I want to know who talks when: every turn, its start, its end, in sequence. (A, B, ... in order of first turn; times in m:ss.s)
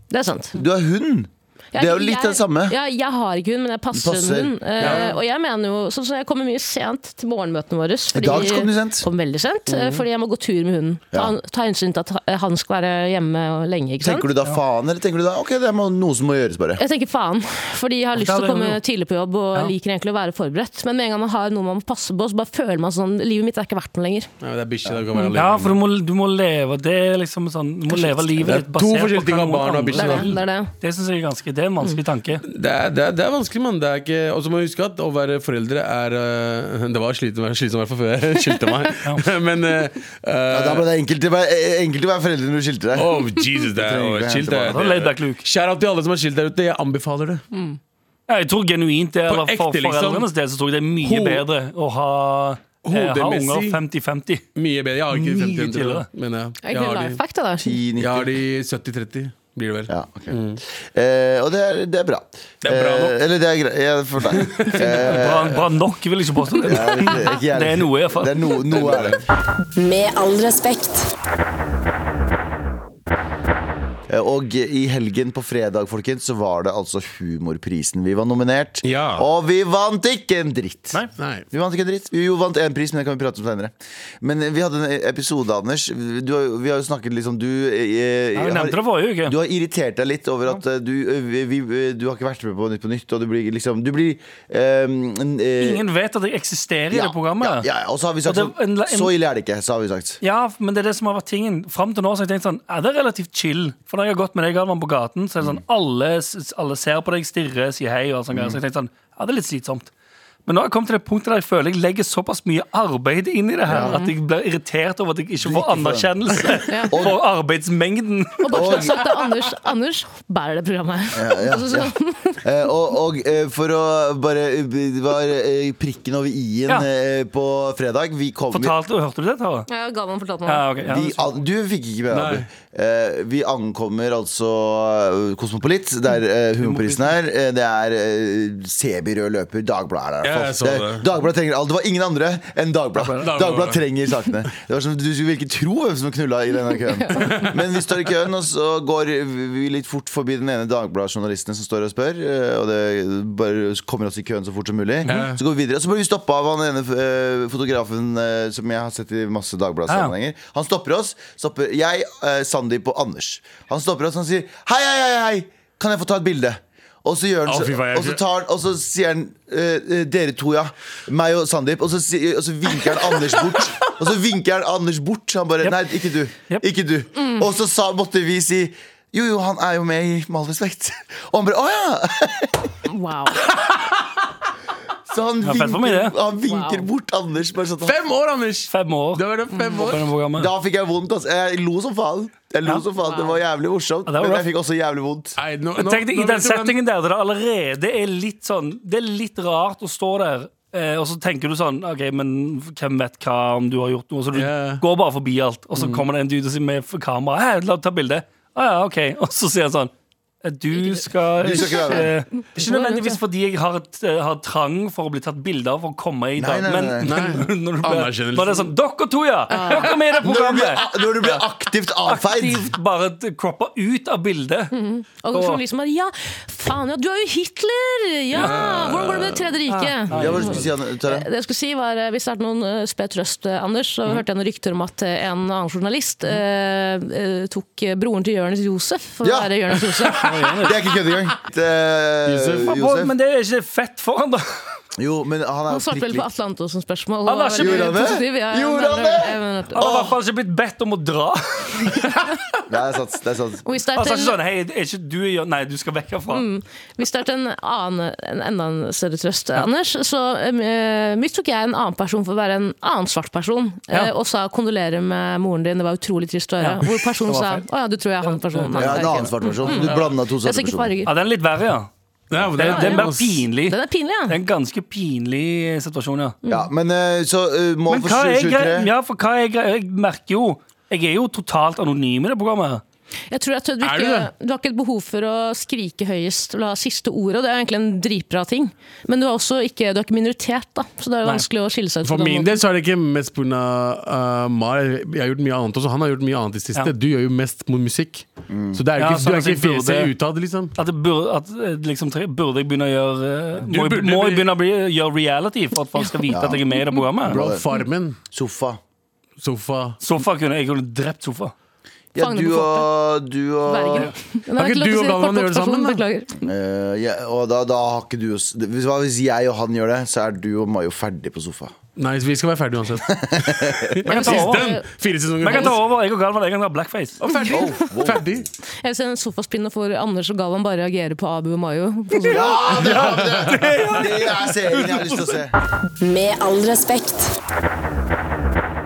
0:00.1-0:00.6 A
0:00.5-0:02.7 B
0:01.7-0:14.3 A
0:03.9-0:05.0 B
0:04.8-0:05.2 C
0:08.1-0:09.0 B
0:09.7-0:10.0 C
0:14.0-0:16.8 B
0:16.8-0:24.3 A
0:18.1-0:18.8 D
0:24.4-0:25.8 C
0:25.3-0:32.4 D
0:28.4-0:30.3 C
0:29.9-0:30.7 A
0:32.5-0:40.8 C
0:40.5-0:44.9 B
0:43.0-0:47.4 C
0:44.7-0:45.4 D
0:47.5-0:47.8 A
0:48.3-0:54.4 D
0:49.3-0:50.2 C
0:51.0-0:51.4 C
0:52.8-0:53.8 C
0:54.6-0:57.2 C
0:55.1-0:56.1 D
0:56.6-0:57.8 A
0:57.6-0:58.4 B
0:58.0-1:00.6 C
0:59.9-1:05.6 B
1:02.6-1:03.2 C
1:04.3-1:05.2 C
1:05.0-1:09.0 D
1:06.6-1:09.2 B
1:08.8-1:09.1 C
1:09.8-1:11.1 E
1:14.1-1:21.0 B
1:18.8-1:19.2 C
1:21.2-1:21.4 C
1:21.5-1:35.8 B
1:28.3-1:29.3 D
1:35.6-1:37.7 D
1:36.9-1:40.2 B
1:38.2-1:39.1 D
1:40.2-1:49.9 D
1:48.3-1:48.6 B
1:50.4-1:58.9 D
1:53.7-1:54.0 B
1:53.7-1:54.1 A
1:55.4-1:57.2 B
1:56.7-1:57.0 A
1:58.4-2:02.4 A
1:58.5-1:59.0 B
2:01.1-2:08.7 B
2:08.5-2:09.7 D
2:09.7-2:10.6 A
2:10.4-2:11.2 D
2:10.8-3:02.7 B
2:12.1-2:12.5 C
2:16.6-2:17.0 D
2:20.2-2:21.0 C
2:23.0-2:23.3 D
2:23.2-2:23.8 C
2:26.8-2:27.3 A
2:27.2-2:27.5 C
2:35.0-2:35.4 C
2:39.9-2:40.1 D
2:47.4-2:48.2 C
2:57.2-2:57.5 A
3:02.9-3:03.4 A
3:05.0-3:08.0 B
3:05.4-3:06.1 D
3:06.4-3:06.8 A
3:07.8-3:10.1 C
3:08.7-3:10.5 D
3:10.4-3:15.4 B
3:13.0-3:13.4 A
3:14.1-3:14.5 D
3:15.4-3:16.7 C
3:15.8-3:29.9 D
3:24.3-3:24.8 C
3:25.8-3:26.0 C
3:30.4-3:41.4 D
3:30.8-3:31.0 A
3:31.4-3:32.1 B
3:32.6-3:33.2 A
3:36.4-3:37.1 B
3:37.0-3:38.7 C
3:39.5-3:39.9 A
3:40.2-3:42.7 B
3:42.0-3:44.7 D
3:44.7-4:00.3 A
3:45.3-3:45.6 D
3:48.3-3:49.6 C
3:49.7-3:50.6 D
3:50.1-3:51.3 B
3:59.2-4:03.1 B
4:00.2-4:00.8 D
4:02.2-4:02.7 C
4:02.6-4:04.4 D
4:05.0-4:06.3 B
4:05.7-4:09.8 A
4:07.2-4:08.0 D
4:07.6-4:10.2 B
4:09.7-4:12.2 D
4:12.7-4:13.6 B
4:13.6-4:14.4 A
4:14.0-4:16.4 D
4:16.3-4:31.1 A
4:26.6-4:27.6 D
4:28.2-4:30.1 D
4:28.8-4:31.0 B
4:31.0-4:31.9 D
4:32.3-4:33.5 C
4:32.5-4:36.4 D
4:32.6-4:33.1 A
4:33.6-4:34.4 A
4:36.4-4:36.7 A
4:36.4-4:38.9 B
4:37.9-4:42.8 D
4:43.3-4:52.6 A
4:43.8-4:44.3 C
4:52.0-5:00.8 C
4:58.5-4:58.8 B
4:59.0-5:00.1 D
5:00.8-5:07.4 D
5:03.6-5:04.5 C
5:06.3-5:06.6 B
5:07.2-5:07.6 B
5:07.3-5:08.2 C
5:08.3-5:08.8 B
5:09.4-5:10.0 C
5:10.0-5:11.5 D
5:12.1-5:14.1 B
5:12.2-5:12.9 A
5:13.6-5:16.4 A
5:14.6-5:16.0 C
5:16.4-5:21.7 B
5:22.0-5:25.8 C
5:23.1-5:24.0 B
5:24.1-5:24.7 D
5:24.1-5:24.8 A
5:25.4-5:27.2 D
5:27.2-5:28.5 C
5:27.3-5:27.7 A
5:27.5-5:28.4 B
5:28.8-5:32.8 A
5:32.1-5:35.4 D
5:32.3-5:35.5 B
5:36.0-5:37.3 E